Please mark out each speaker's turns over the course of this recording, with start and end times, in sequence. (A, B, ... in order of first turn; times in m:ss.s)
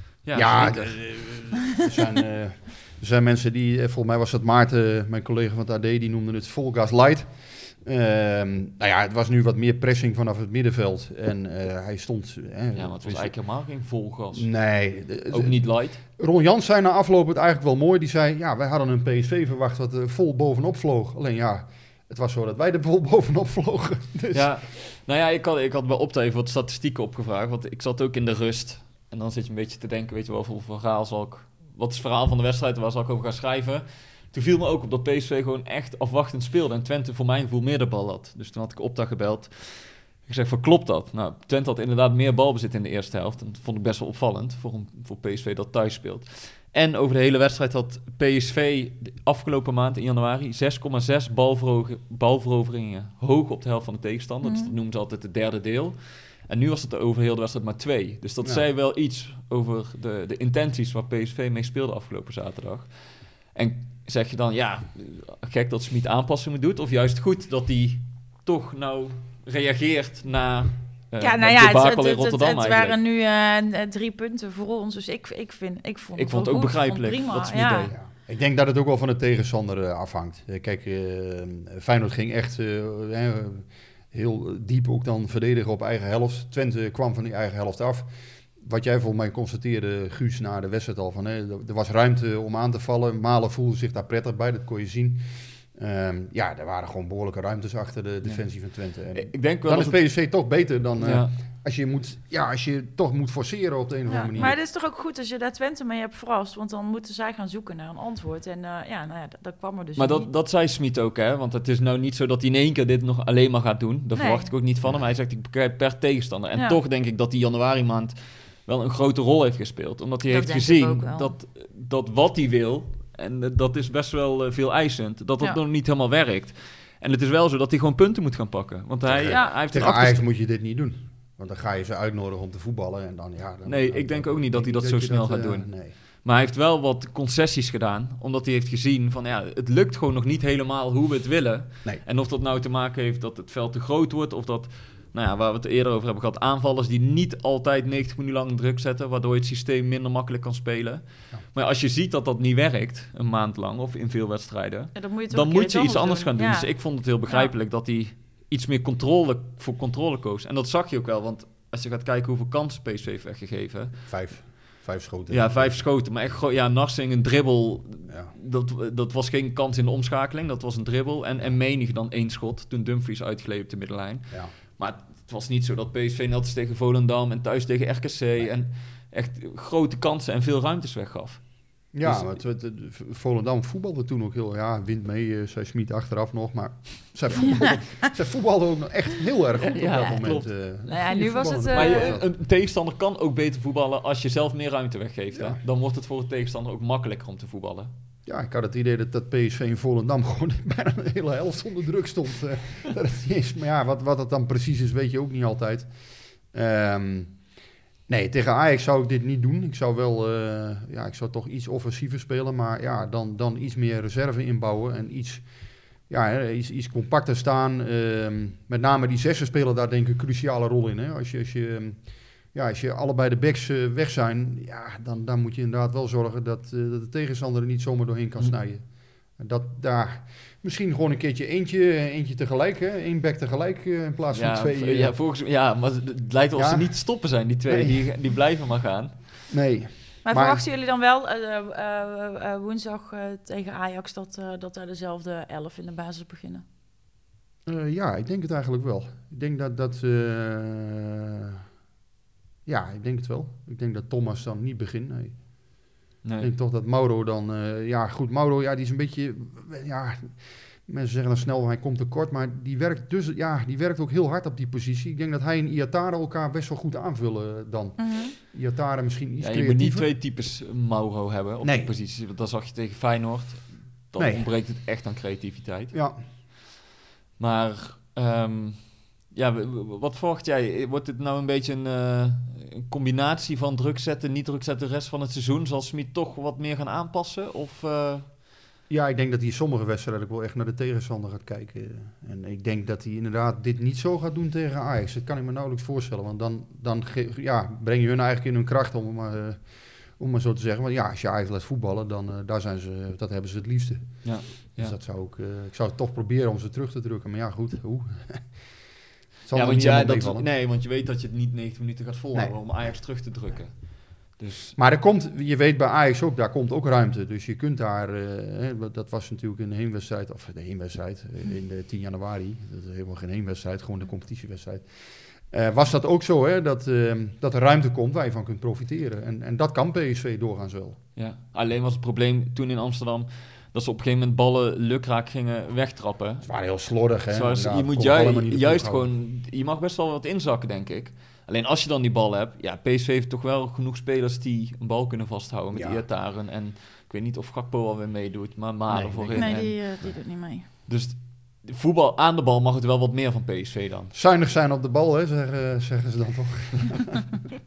0:00.2-0:01.5 A
0:00.3-0:13.3 B
0:12.7-0:14.5 A
0:14.3-0:24.5 B
0:15.3-0:16.0 A
0:24.3-1:13.0 A
0:54.4-0:54.7 C
1:11.2-1:17.9 C
1:16.2-1:17.9 A
1:17.9-1:44.6 B
1:38.2-1:40.3 A
1:41.0-1:41.4 A
1:44.1-1:50.3 C
1:50.0-2:10.2 A
1:54.2-1:54.5 C
2:00.3-2:01.3 C
2:09.0-2:15.9 B
2:09.3-2:09.5 C
2:13.6-2:44.5 A
2:34.9-2:36.8 C
2:44.0-2:45.9 B
2:45.3-3:01.4 A
2:48.1-2:48.3 B
3:01.9-3:12.2 B
3:02.0-3:02.3 A
3:09.6-3:10.5 A
3:10.9-3:12.1 C
3:11.7-3:17.9 A
3:15.3-3:15.6 B
3:18.2-3:25.9 B
3:26.5-3:27.3 B
3:28.1-3:35.5 B
3:36.1-3:55.1 B
3:54.3-3:59.2 A
3:56.5-3:58.0 B
3:59.5-4:00.6 B
4:00.2-4:06.6 C
4:07.6-4:11.6 B
4:12.6-4:15.4 B
4:16.2-4:16.5 A
4:16.4-4:30.1 B
4:28.0-4:28.3 C
4:29.4-4:36.0 A
4:31.6-4:31.9 B
4:34.2-4:34.4 B
4:35.9-4:36.2 B
4:37.4-4:48.3 A
4:48.9-5:08.5 B
5:04.2-5:04.9 A
5:09.4-5:10.4 B
5:09.5-5:14.8 A
5:14.8-5:24.8 B
5:25.5-5:31.0 B
5:31.2-5:36.5 A
5:36.4-5:39.1 B
5:37.3-5:49.8 A
5:45.7-5:46.0 B
5:48.9-5:49.6 B
5:49.4-5:50.6 C
5:50.9-5:54.1 A
5:54.1-5:57.2 B